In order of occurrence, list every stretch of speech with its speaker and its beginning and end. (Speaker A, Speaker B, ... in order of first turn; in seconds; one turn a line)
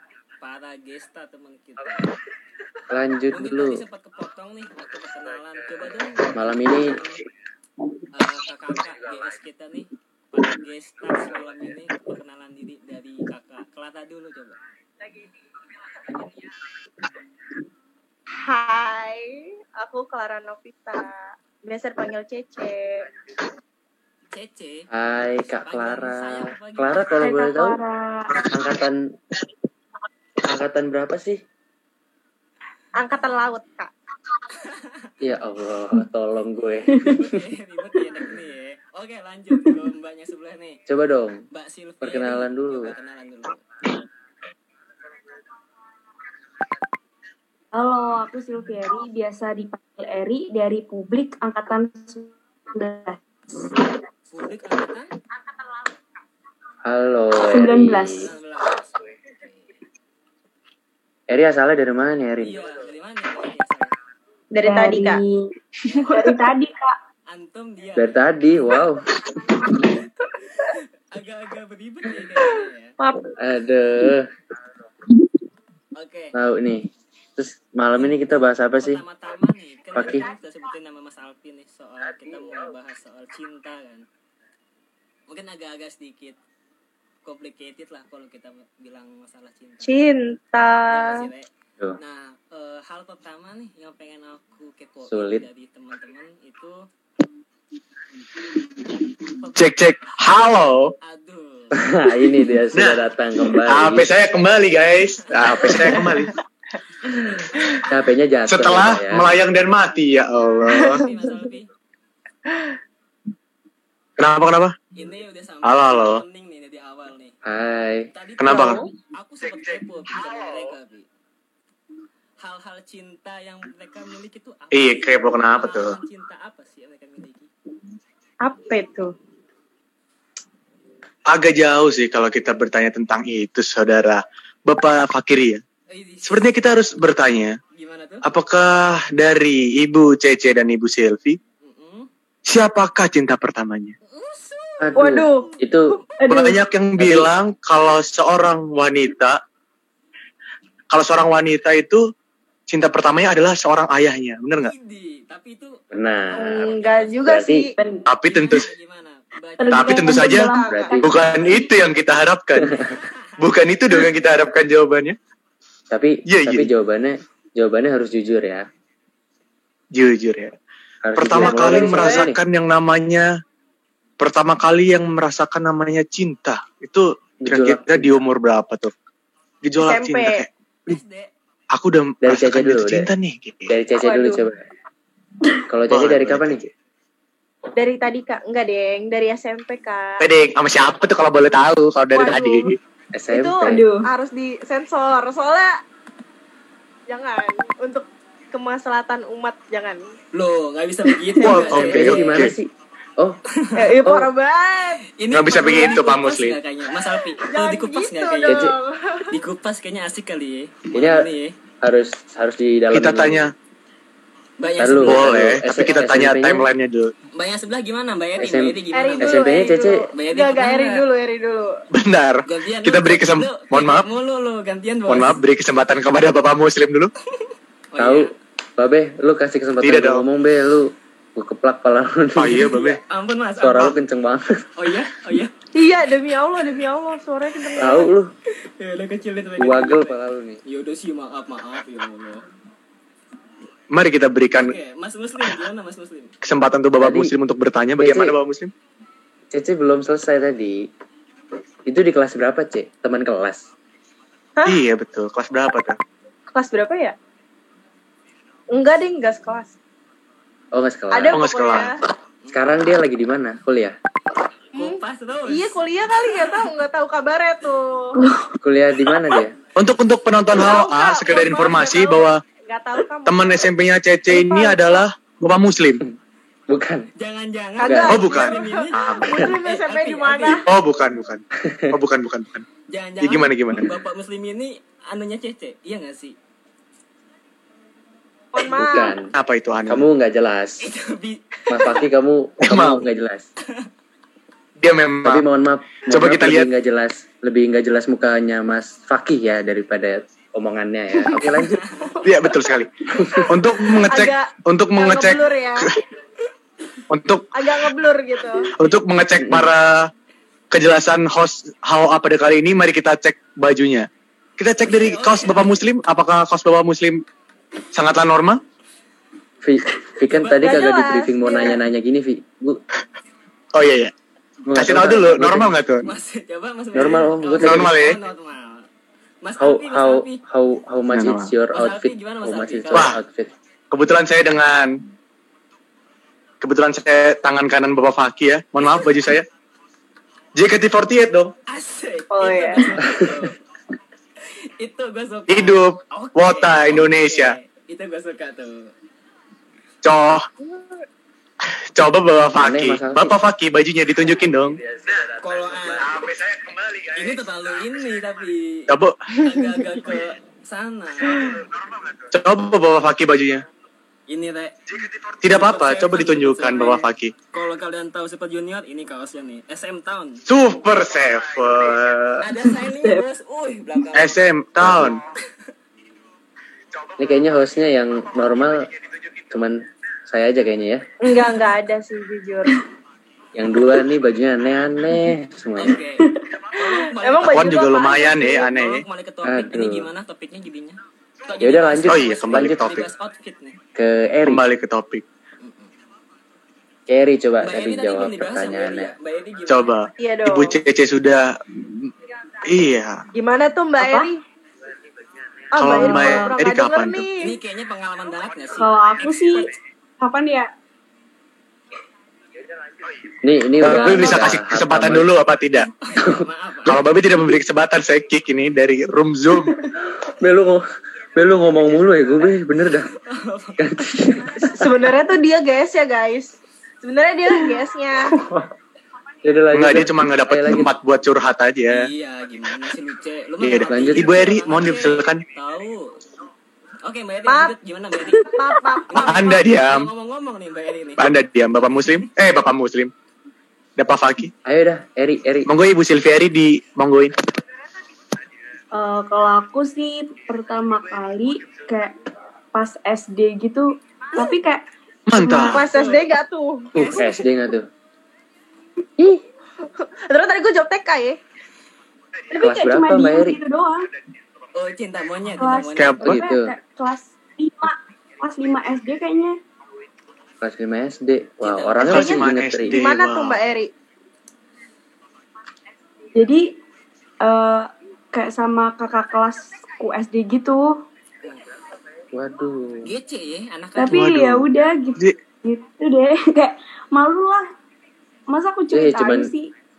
Speaker A: 0.4-2.2
Speaker B: 2.9-3.8
Speaker A: 3.3-7.1
Speaker B: 6.3-7.0
Speaker A: 8.1-14.6
Speaker A: 16.1-16.3
Speaker C: 18.4-23.1
Speaker A: 24.3-27.4
Speaker B: 24.9-27.8
Speaker D: 27.2-28.5
Speaker B: 28.4-29.1
Speaker B: 30.4-31.4
Speaker C: 33.0-33.9
Speaker A: 34.5-35.1
Speaker B: 35.2-37.4
Speaker D: 36.9-37.2
Speaker A: 37.0-40.8
Speaker B: 40.9-41.4
Speaker A: 41.5-43.7
Speaker B: 42.0-42.9
Speaker D: 47.7-53.9
Speaker A: 54.3-55.1
Speaker B: 56.9-58.3
Speaker D: 57.4-58.3
Speaker A: 58.1-59.8
Speaker B: 61.3-62.7
Speaker A: 62.4-64.0
Speaker C: 64.5-65.2
Speaker D: 64.6-67.0
Speaker A: 67.3-68.2
Speaker B: 68.0-69.2
Speaker A: 70.5-73.0
Speaker C: 73.0-73.3
Speaker B: 73.4-74.3
Speaker A: 76.0-76.3
Speaker B: 76.3-79.0
Speaker A: 78.8-84.0
Speaker B: 80.0-80.3
Speaker A: 85.3-86.4
Speaker A: 87.2-90.0
Speaker C: 89.8-91.3
Speaker A: 90.8-96.9
Speaker B: 95.1-95.5
Speaker A: 99.3-99.7
Speaker E: 99.5-100.9
Speaker A: 101.0-101.8
Speaker B: 101.7-104.1
Speaker E: 102.7-106.4
Speaker A: 105.3-105.8
Speaker A: 107.1-107.6
Speaker B: 107.8-109.4
Speaker E: 108.5-111.1
Speaker A: 110.7-111.7
Speaker C: 110.8-111.1
Speaker E: 114.2-114.8
Speaker A: 115.0-117.3
Speaker E: 115.6-116.2
Speaker B: 117.5-118.1
Speaker A: 118.1-121.1
Speaker E: 118.4-118.8
Speaker C: 118.5-118.9
Speaker A: 122.4-127.5
Speaker E: 124.7-126.0
Speaker C: 128.4-129.1
Speaker E: 131.3-135.6
Speaker A: 135.9-136.5
Speaker E: 136.2-137.6
Speaker A: 137.7-138.2
Speaker E: 138.2-141.4
Speaker A: 141.6-142.1
Speaker E: 142.5-143.9
Speaker A: 144.0-145.1
Speaker B: 144.8-146.0
Speaker C: 145.0-145.5
Speaker D: 146.2-146.5
Speaker E: 146.3-149.4
Speaker B: 147.0-147.3
Speaker E: 150.9-152.1
Speaker E: 152.7-154.7
Speaker A: 154.7-155.8
Speaker B: 155.9-157.7
Speaker A: 156.3-157.2
Speaker C: 156.3-157.7
Speaker D: 157.8-158.1
Speaker E: 158.1-158.7
Speaker A: 158.2-160.4
Speaker D: 159.6-161.1
Speaker E: 159.7-162.8
Speaker C: 160.2-161.0
Speaker B: 160.7-161.1
Speaker A: 161.3-161.7
Speaker B: 162.6-162.8
Speaker A: 162.8-163.6
Speaker E: 163.4-165.2
Speaker B: 165.9-168.7
Speaker E: 166.3-166.7
Speaker E: 169.9-170.5
Speaker B: 171.0-172.4
Speaker E: 171.2-173.3
Speaker C: 171.4-172.3
Speaker E: 174.2-178.9
Speaker B: 177.4-178.3
Speaker E: 179.6-181.0
Speaker C: 179.8-180.4
Speaker A: 180.9-181.3
Speaker E: 181.7-183.8
Speaker B: 182.2-183.1
Speaker B: 183.7-184.6
Speaker C: 184.0-184.4
Speaker B: 185.7-186.6
Speaker E: 185.9-186.7
Speaker C: 187.8-190.2
Speaker E: 190.2-192.8
Speaker C: 192.1-192.7
Speaker B: 193.1-193.9
Speaker C: 193.3-195.8
Speaker D: 193.6-194.1
Speaker C: 197.1-200.1
Speaker A: 200.3-202.5
Speaker E: 201.4-202.6
Speaker B: 201.6-203.4
Speaker A: 203.6-203.8
Speaker C: 203.8-205.1
Speaker B: 204.0-204.3
Speaker A: 205.2-208.7
Speaker E: 205.3-206.6
Speaker C: 205.6-205.9
Speaker C: 207.4-209.3
Speaker B: 208.5-208.8
Speaker A: 209.3-211.6
Speaker B: 210.9-211.3
Speaker B: 211.8-213.5
Speaker E: 212.9-213.5
Speaker A: 214.6-216.1
Speaker B: 214.8-216.7
Speaker E: 215.0-217.1
Speaker A: 217.3-221.1
Speaker B: 218.4-220.1
Speaker C: 218.9-221.8
Speaker E: 221.9-224.1
Speaker A: 222.5-225.4
Speaker E: 225.1-227.1
Speaker A: 227.9-228.3
Speaker B: 228.0-233.0
Speaker E: 229.8-230.2
Speaker E: 232.4-233.0
Speaker A: 233.1-233.9
Speaker B: 233.6-234.6
Speaker A: 234.8-235.5
Speaker C: 235.7-238.1
Speaker B: 237.8-238.3
Speaker A: 238.6-242.4
Speaker B: 239.6-240.6
Speaker E: 243.9-244.8
Speaker A: 244.5-246.3
Speaker E: 246.4-248.7
Speaker B: 247.0-247.3
Speaker B: 248.0-248.4
Speaker B: 249.5-250.9
Speaker B: 251.9-253.7
Speaker E: 254.7-256.0
Speaker C: 256.5-257.1
Speaker C: 258.7-259.7
Speaker B: 260.7-261.4
Speaker C: 261.1-262.0
Speaker E: 261.3-261.9
Speaker A: 262.4-262.7
Speaker B: 262.5-264.0
Speaker C: 264.7-268.2
Speaker A: 264.8-265.8
Speaker D: 268.1-268.6
Speaker B: 268.6-269.6
Speaker E: 269.8-272.4
Speaker C: 270.5-273.7
Speaker E: 273.3-276.0
Speaker C: 274.3-275.1
Speaker B: 276.7-277.1
Speaker A: 277.2-280.6
Speaker C: 277.8-280.7
Speaker B: 277.8-278.2
Speaker E: 278.1-279.4
Speaker E: 280.6-282.7
Speaker B: 281.6-282.0
Speaker A: 282.9-286.4
Speaker E: 283.2-283.9
Speaker C: 288.5-289.2
Speaker B: 288.7-289.3
Speaker E: 289.3-290.1
Speaker B: 289.9-290.8
Speaker A: 290.8-292.1
Speaker B: 291.7-293.5
Speaker E: 292.6-293.1
Speaker E: 294.8-295.5
Speaker B: 295.2-301.8
Speaker E: 296.1-296.7
Speaker C: 301.4-302.7
Speaker A: 301.7-302.1
Speaker E: 302.2-305.9
Speaker B: 303.2-303.5
Speaker C: 303.2-305.9
Speaker E: 307.1-307.5
Speaker C: 307.5-308.7
Speaker E: 308.8-310.1
Speaker B: 309.4-309.7
Speaker E: 310.7-317.2
Speaker A: 314.9-315.9
Speaker E: 317.9-318.6
Speaker B: 319.6-322.8
Speaker A: 320.3-320.9
Speaker C: 320.6-321.8
Speaker E: 323.7-324.1
Speaker B: 324.7-325.8
Speaker E: 324.7-326.1
Speaker A: 326.1-328.9
Speaker B: 326.9-328.0
Speaker E: 327.6-328.2
Speaker A: 329.4-330.4
Speaker B: 329.6-333.5
Speaker E: 331.1-331.5
Speaker A: 331.7-333.1
Speaker E: 333.9-335.0
Speaker E: 336.6-339.5
Speaker E: 340.6-341.5
Speaker A: 341.7-343.6
Speaker C: 342.3-342.9
Speaker B: 343.1-343.4
Speaker A: 344.8-348.9
Speaker E: 345.5-347.6
Speaker E: 350.0-350.5
Speaker E: 351.8-354.8
Speaker B: 352.6-353.4
Speaker B: 354.8-356.0
Speaker A: 355.4-356.1
Speaker E: 356.1-357.1
Speaker A: 357.1-361.6
Speaker E: 358.9-359.2
Speaker E: 362.2-363.6
Speaker A: 364.3-364.8
Speaker E: 365.4-367.3
Speaker A: 365.4-370.4
Speaker E: 370.5-372.5
Speaker A: 372.4-374.4
Speaker E: 374.1-375.2
Speaker B: 374.8-375.2
Speaker B: 377.2-378.9
Speaker B: 379.5-381.1
Speaker C: 381.2-382.8
Speaker B: 383.6-386.0
Speaker A: 385.8-393.8
Speaker C: 386.8-388.3
Speaker E: 387.5-389.0
Speaker B: 389.4-390.1
Speaker B: 391.6-393.0
Speaker E: 392.1-393.1
Speaker B: 393.9-394.6
Speaker E: 394.4-395.2
Speaker A: 395.6-395.9
Speaker B: 397.1-399.1
Speaker A: 397.6-399.9
Speaker E: 399.7-402.1
Speaker C: 400.2-400.8
Speaker E: 402.6-403.2
Speaker C: 403.3-404.4
Speaker D: 404.0-404.3
Speaker C: 405.7-407.6
Speaker E: 405.8-407.2
Speaker D: 405.9-406.5
Speaker A: 407.4-409.6
Speaker D: 408.8-410.7
Speaker B: 413.4-415.3
Speaker E: 413.8-415.9
Speaker D: 413.9-414.3
Speaker A: 416.1-417.0
Speaker E: 416.9-419.9
Speaker B: 420.1-423.1
Speaker A: 422.8-424.6
Speaker B: 423.8-424.8
Speaker C: 424.8-428.4
Speaker B: 428.3-428.7
Speaker B: 429.4-430.9
Speaker E: 429.7-432.1
Speaker A: 431.9-436.2
Speaker E: 433.6-435.4
Speaker B: 433.9-434.3
Speaker A: 437.0-438.6
Speaker C: 437.5-437.7
Speaker C: 438.4-439.6
Speaker A: 439.1-441.2
Speaker E: 439.2-440.1
Speaker E: 441.2-443.1
Speaker E: 444.0-444.5
Speaker B: 444.6-445.7
Speaker E: 445.7-447.3
Speaker D: 448.9-452.1
Speaker D: 452.7-454.8
Speaker E: 455.3-455.9
Speaker D: 455.4-455.8
Speaker C: 455.4-457.4
Speaker A: 455.7-456.3
Speaker B: 456.9-457.9
Speaker C: 460.0-461.4
Speaker D: 462.5-464.1
Speaker B: 462.6-463.6
Speaker A: 464.8-466.3
Speaker D: 465.6-469.6
Speaker E: 466.0-466.4
Speaker B: 466.2-466.7
Speaker B: 470.6-473.0
Speaker A: 471.6-472.2
Speaker E: 472.0-473.6
Speaker C: 472.1-473.9
Speaker D: 476.4-476.7
Speaker D: 477.4-481.0
Speaker B: 482.3-483.1
Speaker A: 483.0-484.2
Speaker D: 484.0-487.7
Speaker E: 484.1-485.4
Speaker D: 488.5-489.7
Speaker B: 488.9-489.5